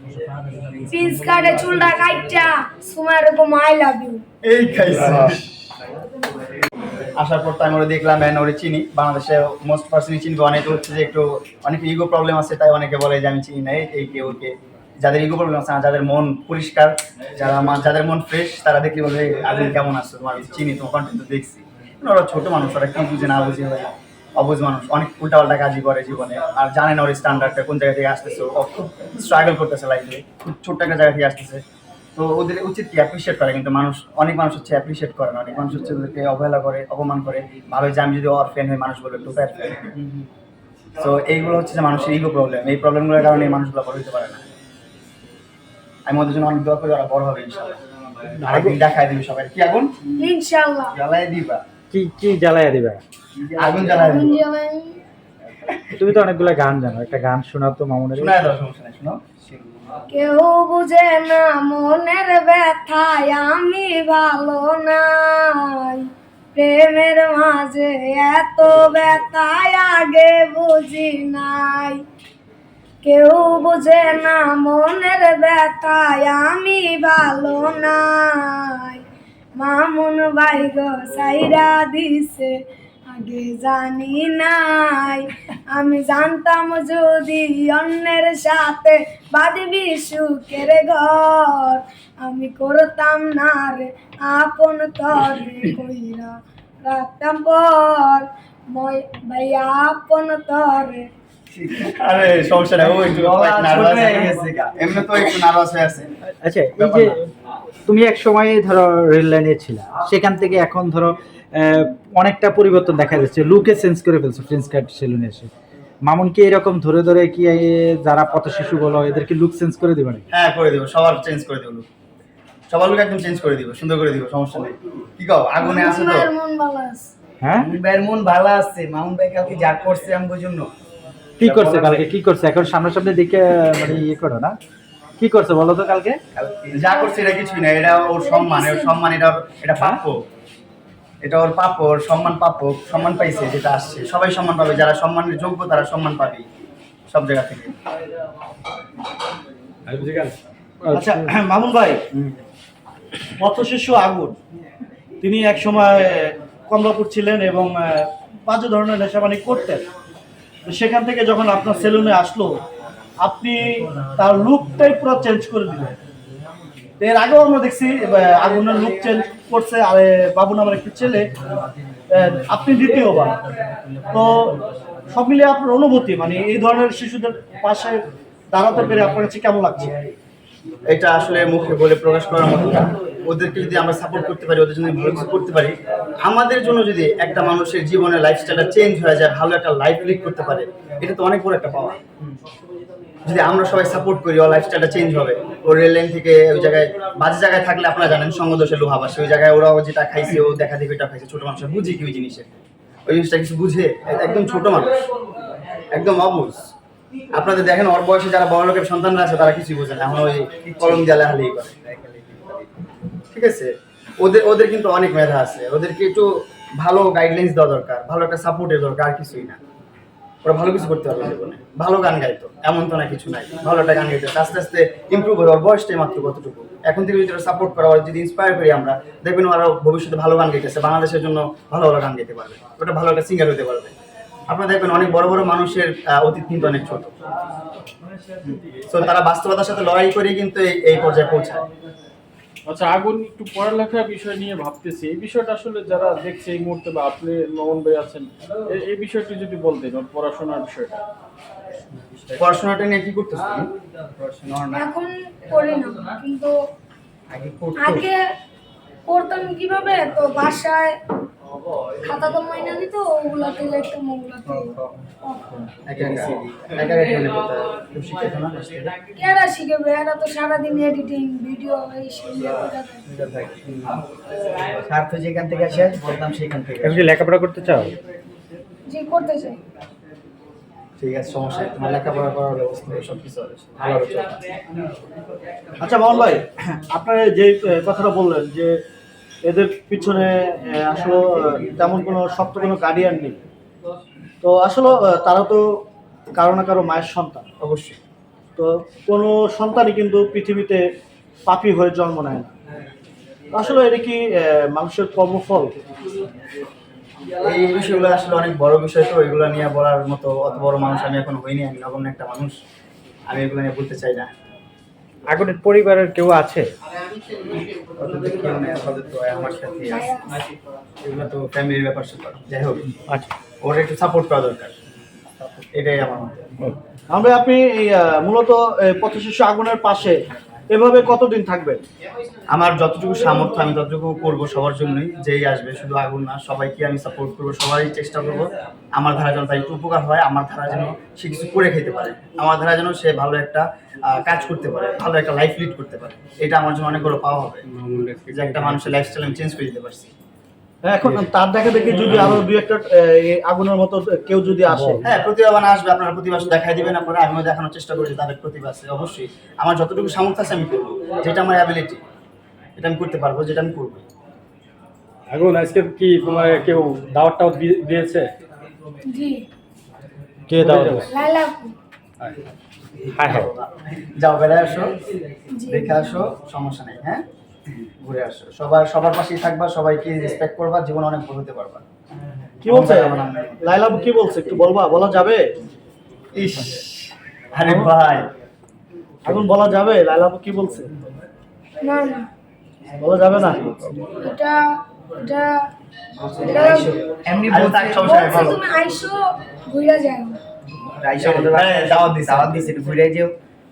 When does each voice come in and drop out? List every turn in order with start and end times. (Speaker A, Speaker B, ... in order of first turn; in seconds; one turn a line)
Speaker A: 0.8-4.2
Speaker B: 4.4-5.6
Speaker B: 7.2-31.6
Speaker B: 32.2-40.0
Speaker B: 41.0-44.4
Speaker B: 46.1-47.8
Speaker C: 48.5-48.8
Speaker B: 48.5-50.0
Speaker A: 50.2-50.9
Speaker B: 50.9-51.6
Speaker C: 51.9-53.0
Speaker B: 53.5-54.4
Speaker A: 53.8-55.0
Speaker C: 55.9-58.3
Speaker B: 58.2-59.9
Speaker A: 60.1-72.0
Speaker A: 73.0-79.0
Speaker A: 79.6-82.5
Speaker A: 83.1-96.3
Speaker A: 96.8-101.1
Speaker B: 101.6-106.1
Speaker D: 102.9-104.7
Speaker C: 106.4-107.2
Speaker B: 106.8-107.2
Speaker C: 107.9-115.5
Speaker C: 116.1-120.2
Speaker B: 120.3-121.9
Speaker B: 122.7-126.3
Speaker A: 125.6-127.1
Speaker C: 127.4-127.7
Speaker B: 127.6-130.7
Speaker C: 131.4-134.6
Speaker B: 131.4-132.0
Speaker C: 135.2-136.2
Speaker B: 136.7-140.2
Speaker A: 136.9-137.2
Speaker A: 138.1-139.0
Speaker B: 141.2-146.5
Speaker B: 147.1-147.8
Speaker E: 149.9-151.2
Speaker F: 150.9-152.0
Speaker F: 153.4-154.4
Speaker F: 155.2-159.9
Speaker F: 160.7-162.5
Speaker F: 163.2-166.0
Speaker F: 167.0-171.3
Speaker F: 172.1-173.4
Speaker F: 174.1-174.6
Speaker F: 175.1-179.9
Speaker B: 180.9-192.0
Speaker B: 193.2-202.5
Speaker B: 203.1-205.0
Speaker B: 205.9-206.7
Speaker B: 207.3-211.8
Speaker D: 211.9-212.6
Speaker B: 213.3-219.6
Speaker B: 220.4-233.9
Speaker B: 234.5-237.1
Speaker B: 238.4-241.7
Speaker G: 242.7-251.0
Speaker B: 252.4-254.9
Speaker A: 254.7-256.5
Speaker B: 257.3-258.0
Speaker A: 257.8-258.2
Speaker A: 259.1-261.0
Speaker A: 262.0-265.7
Speaker B: 265.9-268.9
Speaker A: 269.1-273.0
Speaker B: 273.1-274.0
Speaker B: 274.6-277.1
Speaker C: 276.8-277.9
Speaker A: 278.9-279.6
Speaker B: 281.0-284.4
Speaker F: 285.8-288.8
Speaker F: 289.4-293.4
Speaker F: 294.4-297.4
Speaker B: 297.6-298.0
Speaker F: 298.6-300.8
Speaker F: 301.5-302.5
Speaker F: 303.5-305.8
Speaker B: 307.4-312.6
Speaker B: 313.3-314.3
Speaker C: 315.3-316.7
Speaker B: 318.0-320.2
Speaker A: 319.9-320.4
Speaker B: 321.0-322.9
Speaker B: 323.6-324.7
Speaker B: 325.4-326.3
Speaker F: 327.1-330.2
Speaker F: 330.7-331.8
Speaker B: 332.5-347.6
Speaker E: 347.8-349.1
Speaker B: 348.3-350.1
Speaker F: 350.8-355.0
Speaker E: 352.1-352.4
Speaker B: 355.0-362.0
Speaker B: 362.8-364.1
Speaker E: 365.3-368.3
Speaker A: 369.1-369.4
Speaker C: 370.5-371.1
Speaker A: 371.1-371.7
Speaker C: 373.2-373.5
Speaker B: 373.2-374.9
Speaker A: 375.5-376.2
Speaker B: 375.7-377.2
Speaker B: 378.0-381.8
Speaker F: 382.6-385.4
Speaker B: 382.7-383.6
Speaker B: 386.4-388.3
Speaker F: 389.2-390.9
Speaker A: 391.8-392.3
Speaker F: 393.0-393.7
Speaker A: 394.2-395.7
Speaker B: 396.4-396.9
Speaker D: 396.4-398.6
Speaker A: 396.4-396.9
Speaker B: 397.5-398.6
Speaker A: 398.0-400.4
Speaker D: 401.0-403.3
Speaker B: 401.2-402.8